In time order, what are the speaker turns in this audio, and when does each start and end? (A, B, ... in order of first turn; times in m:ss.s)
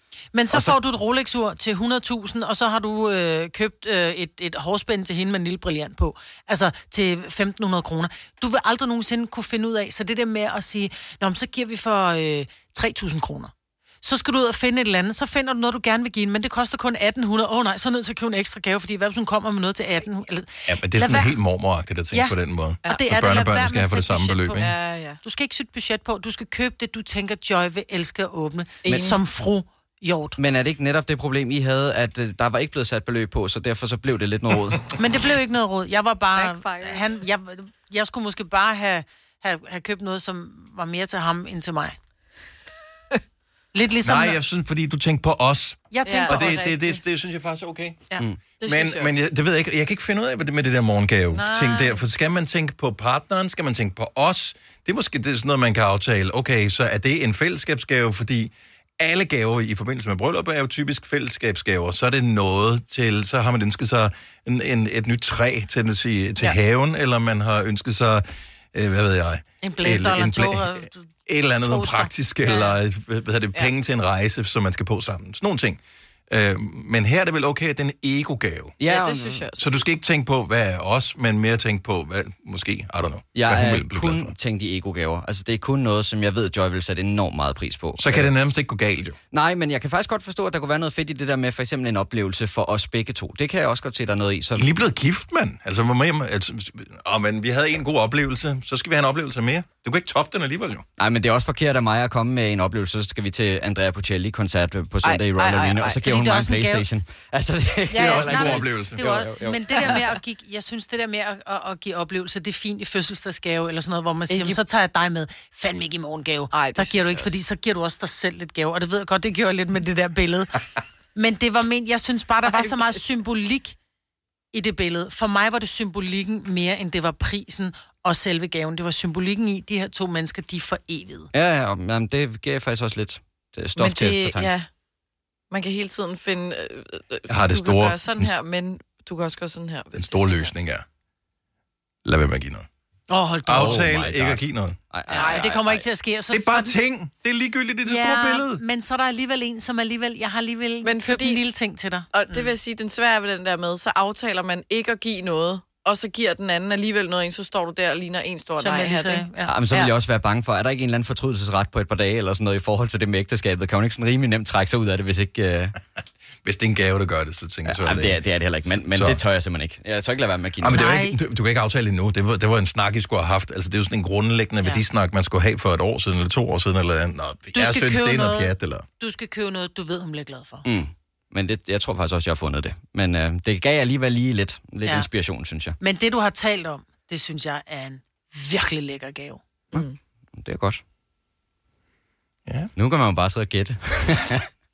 0:00.3-0:21.4 A
0:20.7-0:24.7 B
0:22.1-0:22.4 A
0:22.8-0:23.2 C
0:22.9-0:24.7 A
0:24.1-0:25.2 C
0:25.2-0:30.4 A
0:28.8-0:29.2 C
0:30.4-0:34.9 D
0:34.9-0:42.0 A
0:36.3-0:37.2 C
0:43.7-0:44.4 A
0:44.0-0:48.0 B
0:45.9-0:47.0 A
0:46.0-0:46.8 C
0:48.2-0:49.2 C
0:48.6-1:18.8 B
0:51.3-0:52.0 C
1:09.6-1:11.1 A
1:11.6-1:12.7 A
1:18.8-1:19.4 D
1:18.8-1:19.6 C
1:19.6-1:24.3 B
1:23.3-1:28.3 D
1:28.0-1:29.2 B
1:29.3-1:34.7 D
1:34.5-1:40.8 B
1:41.0-1:49.9 D
1:45.0-1:46.1 C
1:46.0-1:46.8 A
1:47.9-1:48.4 C
1:48.0-2:00.6 A
1:48.0-1:49.0 B
1:49.8-1:50.2 C
1:54.3-1:54.6 C
1:56.5-1:57.4 C
2:01.1-2:03.8 A
2:02.4-2:03.0 C
2:04.5-2:11.3 A
2:11.3-2:14.5 D
2:13.8-2:14.7 C
2:15.5-2:20.5 C
2:17.3-2:18.3 B
2:19.9-2:20.8 B
2:22.0-2:22.6 B
2:23.1-2:24.0 A
2:23.4-2:24.8 B
2:23.6-2:24.4 D
2:24.9-2:25.9 D
2:25.1-2:26.8 A
2:25.1-2:25.5 C
2:26.3-2:28.6 B
2:27.8-2:32.5 A
2:30.8-2:31.5 C
2:32.1-2:39.9 C
2:38.6-2:39.5 A
2:39.5-2:45.8 D
2:46.4-2:49.2 B
2:47.6-2:50.8 D
2:50.6-2:58.8 B
2:50.7-2:51.2 A
2:57.5-3:00.6 A
3:00.6-3:05.8 D
3:05.8-3:09.4 A
3:09.7-3:10.0 C
3:10.4-3:10.8 D
3:12.5-3:12.7 B
3:12.8-3:14.4 D